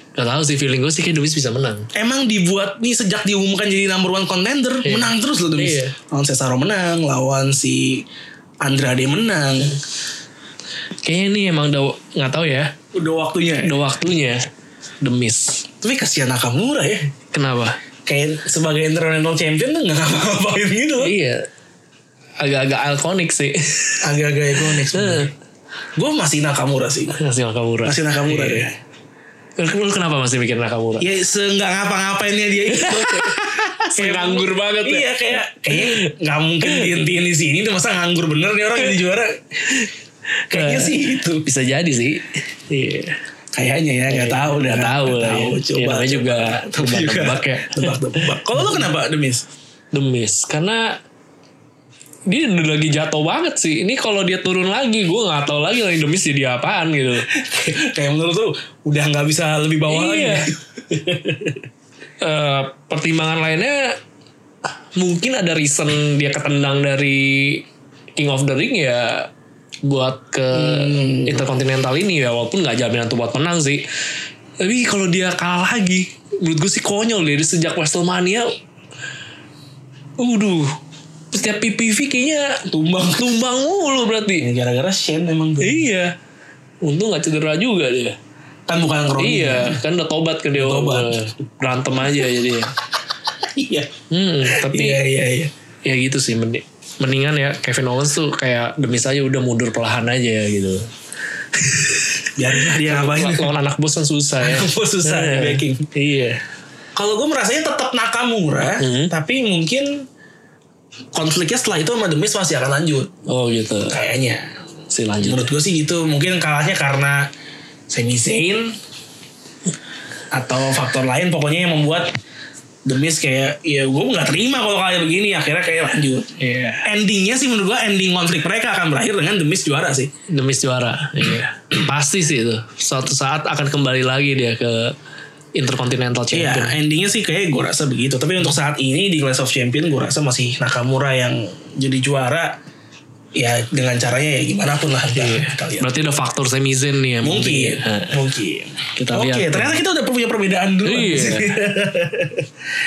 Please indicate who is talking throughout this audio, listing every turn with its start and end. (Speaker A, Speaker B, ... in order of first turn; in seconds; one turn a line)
Speaker A: 0.2-1.9
Speaker B: 1.9-8.1
Speaker A: 4.8-5.9
Speaker B: 8.6-9.8
Speaker A: 11.0-12.7
Speaker B: 12.9-13.8
Speaker A: 13.6-14.5
Speaker A: 15.0-15.6
Speaker B: 15.8-17.1
Speaker A: 17.3-17.8
Speaker B: 18.1-21.1
Speaker A: 21.0-21.5
Speaker A: 22.4-24.0
Speaker B: 24.0-25.3
Speaker A: 24.6-25.3
Speaker B: 26.0-27.2
Speaker A: 27.1-28.7
Speaker B: 27.8-28.8
Speaker A: 29.6-31.1
Speaker B: 31.0-39.9
Speaker A: 32.7-36.1
Speaker A: 36.6-37.0
Speaker B: 40.5-41.5
Speaker A: 40.5-43.2
Speaker B: 43.5-49.5
Speaker A: 44.1-48.9
Speaker A: 49.9-51.0
Speaker A: 52.3-57.3
Speaker B: 57.3-61.6
Speaker A: 59.9-60.5
Speaker A: 62.2-64.0
Speaker A: 64.9-69.3
Speaker A: 69.8-73.8
Speaker B: 70.5-71.4
Speaker A: 74.6-78.5
Speaker A: 80.2-80.8
Speaker A: 81.3-84.5
Speaker B: 82.7-83.3
Speaker B: 84.4-85.9
Speaker A: 85.6-86.2
Speaker A: 86.8-88.2
Speaker B: 88.7-89.8
Speaker A: 89.2-92.7
Speaker B: 90.5-91.2
Speaker B: 93.4-93.9
Speaker A: 94.1-95.0
Speaker B: 94.5-95.5
Speaker A: 95.8-100.9
Speaker A: 101.5-106.4
Speaker B: 102.4-103.5
Speaker B: 104.4-105.9
Speaker B: 107.0-110.1
Speaker A: 108.8-109.1
Speaker B: 111.1-113.1
Speaker A: 113.3-114.0
Speaker B: 113.9-114.5
Speaker A: 114.9-115.5
Speaker B: 115.2-117.3
Speaker B: 117.9-118.8
Speaker B: 120.3-122.1
Speaker B: 122.9-130.1
Speaker A: 126.4-126.8
Speaker A: 130.3-135.0
Speaker A: 135.6-136.8
Speaker B: 136.3-142.6
Speaker B: 143.4-145.9
Speaker A: 145.1-148.2
Speaker B: 147.2-152.5
Speaker A: 149.0-149.8
Speaker A: 150.8-151.6